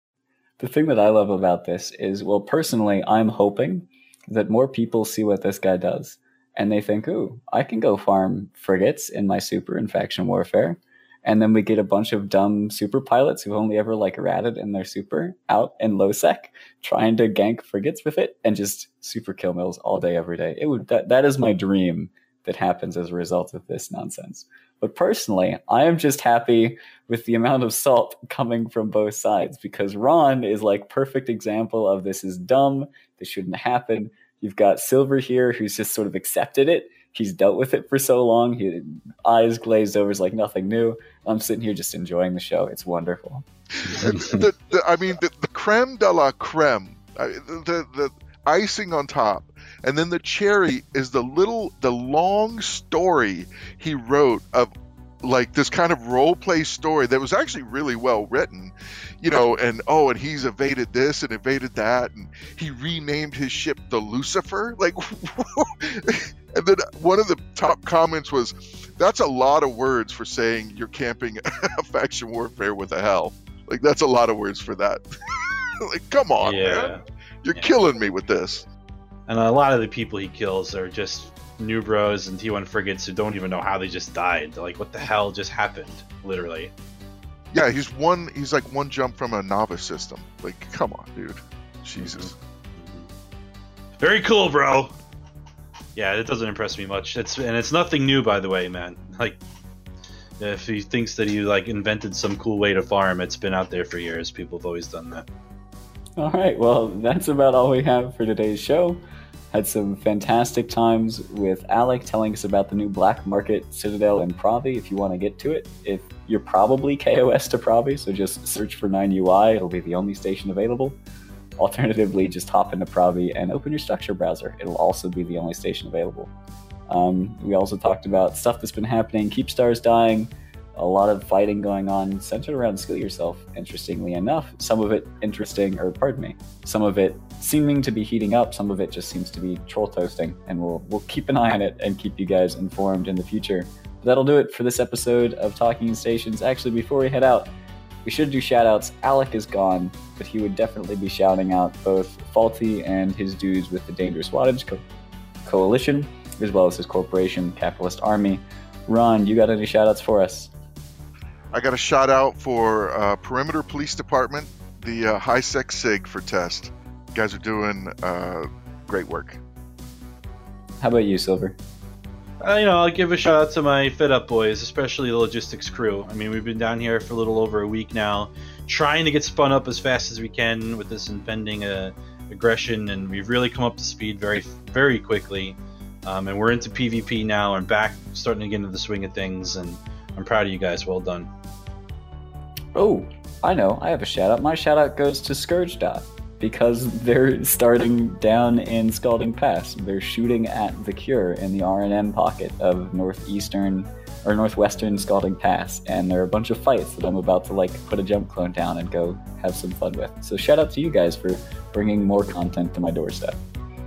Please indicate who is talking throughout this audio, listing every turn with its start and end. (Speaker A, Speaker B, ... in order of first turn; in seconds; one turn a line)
Speaker A: 0.6-43.4
Speaker B: 43.8-54.7
Speaker C: 43.9-44.4
Speaker B: 55.2-75.0
Speaker B: 75.8-78.7
Speaker C: 76.4-77.0
Speaker C: 79.3-86.7
Speaker B: 87.5-92.3
Speaker C: 92.0-93.1
Speaker C: 94.0-94.9
Speaker C: 96.0-99.4
Speaker C: 100.4-105.2
Speaker A: 106.2-121.0
Speaker A: 121.6-126.3
Speaker A: 126.9-147.5
Speaker A: 148.0-154.8
Speaker A: 155.4-160.5
Speaker B: 161.5-169.4
Speaker A: 170.8-171.6
Speaker C: 172.4-191.3
Speaker A: 192.7-213.4